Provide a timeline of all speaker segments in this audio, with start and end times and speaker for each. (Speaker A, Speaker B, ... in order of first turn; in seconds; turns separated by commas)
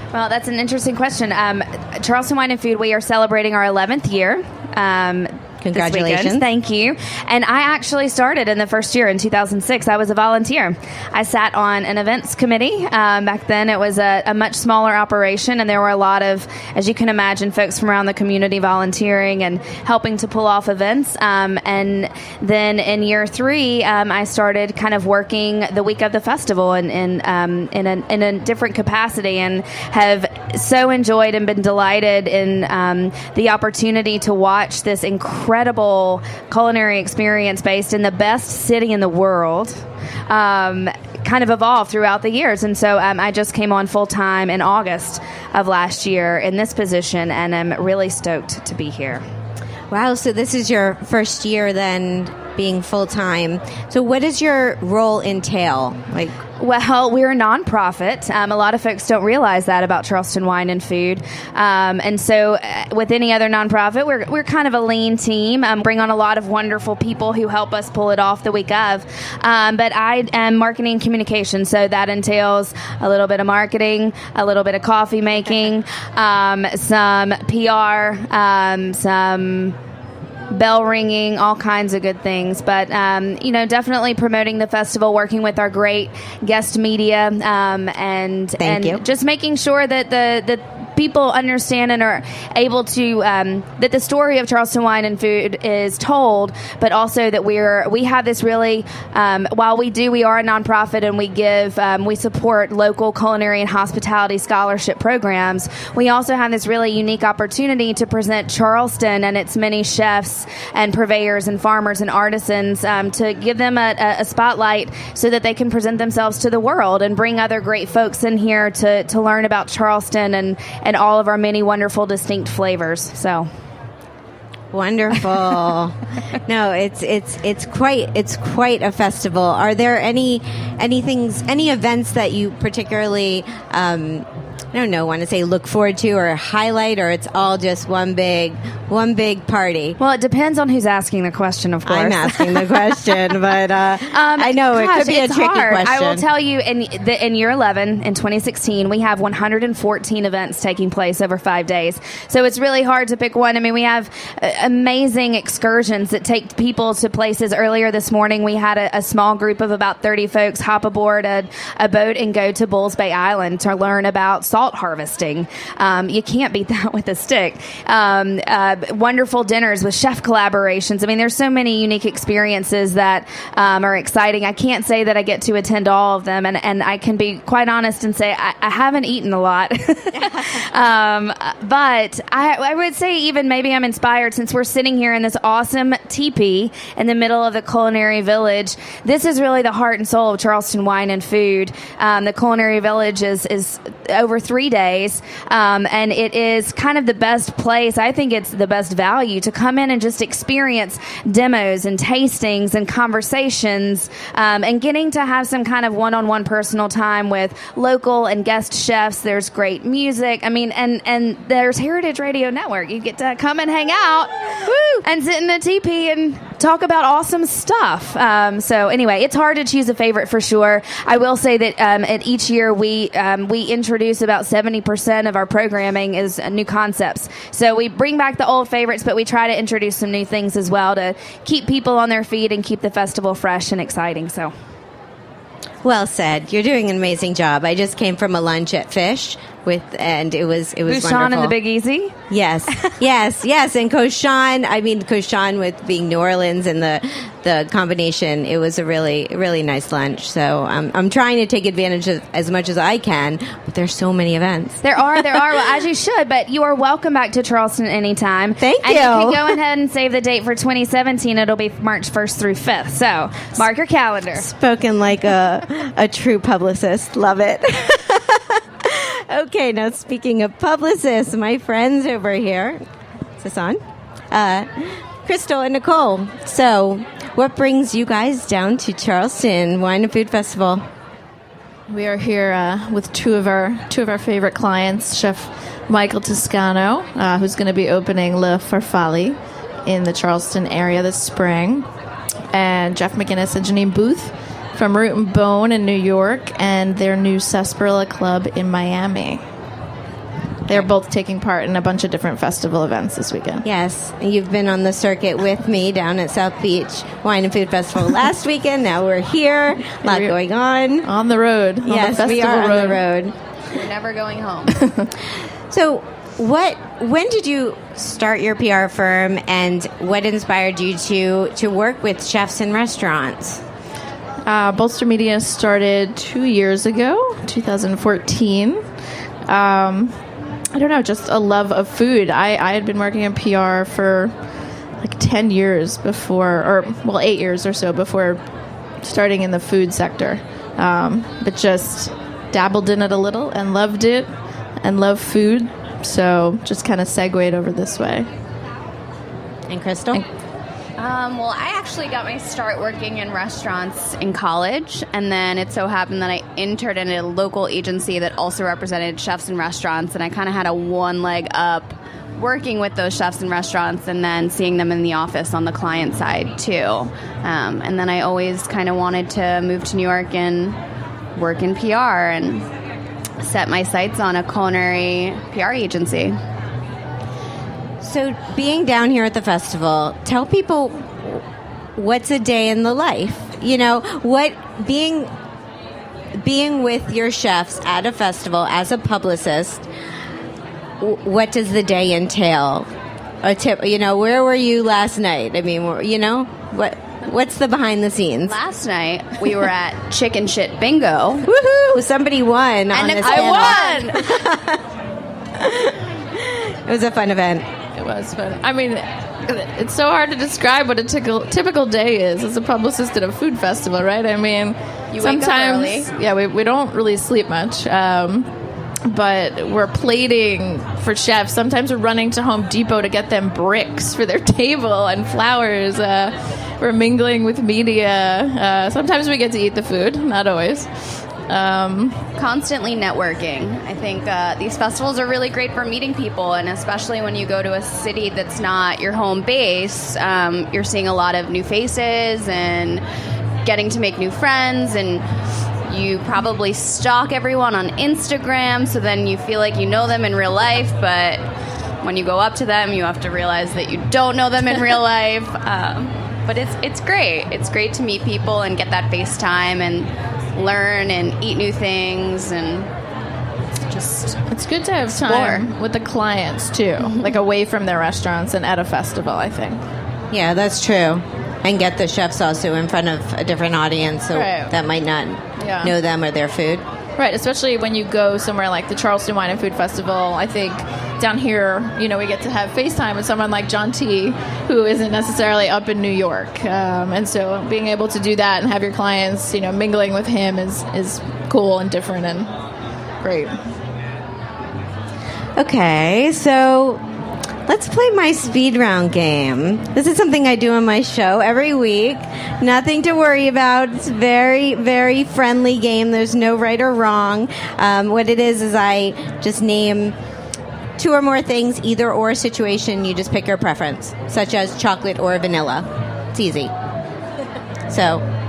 Speaker A: 0.1-49.2, Speaker B: 5.6-6.5, Speaker B: 49.9-56.4, Speaker A: 56.6-79.8, Speaker A: 80.5-123.5, Speaker B: 88.6-89.0, Speaker B: 124.7-126.0, Speaker B: 126.5-139.9, Speaker A: 140.0-142.7, Speaker B: 141.9-146.2, Speaker A: 144.1-234.5, Speaker B: 214.7-215.0, Speaker B: 235.8-241.6, Speaker A: 240.9-242.2, Speaker B: 242.3-254.8, Speaker A: 254.8-264.5, Speaker B: 258.6-259.5, Speaker B: 264.4-272.8, Speaker B: 273.4-273.8, Speaker B: 274.3-274.7, Speaker B: 275.3-280.9, Speaker C: 281.9-291.9, Speaker C: 292.5-299.4, Speaker C: 300.7-303.7, Speaker B: 303.6-311.1, Speaker C: 310.0-310.3, Speaker C: 311.0-313.0, Speaker B: 311.8-313.3, Speaker D: 313.7-314.8, Speaker C: 314.7-315.1, Speaker B: 315.7-323.6, Speaker C: 324.5-328.8, Speaker C: 329.5-330.2, Speaker C: 330.7-334.3, Speaker C: 335.0-338.4, Speaker C: 339.0-348.3, Speaker B: 349.7-350.2, Speaker D: 351.0-370.8, Speaker D: 371.4-372.7, Speaker D: 373.4-376.4, Speaker B: 378.0-381.4, Speaker B: 382.0-385.3, Speaker B: 386.4-389.8, Speaker B: 391.0-392.9, Speaker B: 393.4-398.5, Speaker D: 398.4-401.5, Speaker B: 401.5-404.8, Speaker D: 402.9-404.3, Speaker B: 406.4-407.7, Speaker C: 408.0-418.5, Speaker D: 415.1-416.1, Speaker C: 419.1-432.3, Speaker D: 432.4-443.0, Speaker D: 443.6-445.2, Speaker D: 445.9-451.4, Speaker D: 452.0-462.9, Speaker D: 463.8-464.6, Speaker C: 464.5-469.8, Speaker D: 467.1-467.4, Speaker B: 470.3-476.8, Speaker C: 474.3-474.7, Speaker C: 475.6-475.9, Speaker C: 477.2-492.5, Speaker C: 493.2-493.6, Speaker B: 495.6-497.0, Speaker B: 497.7-510.1, Speaker B: 511.0-515.8, Speaker B: 516.4-516.7, Speaker B: 517.9-518.2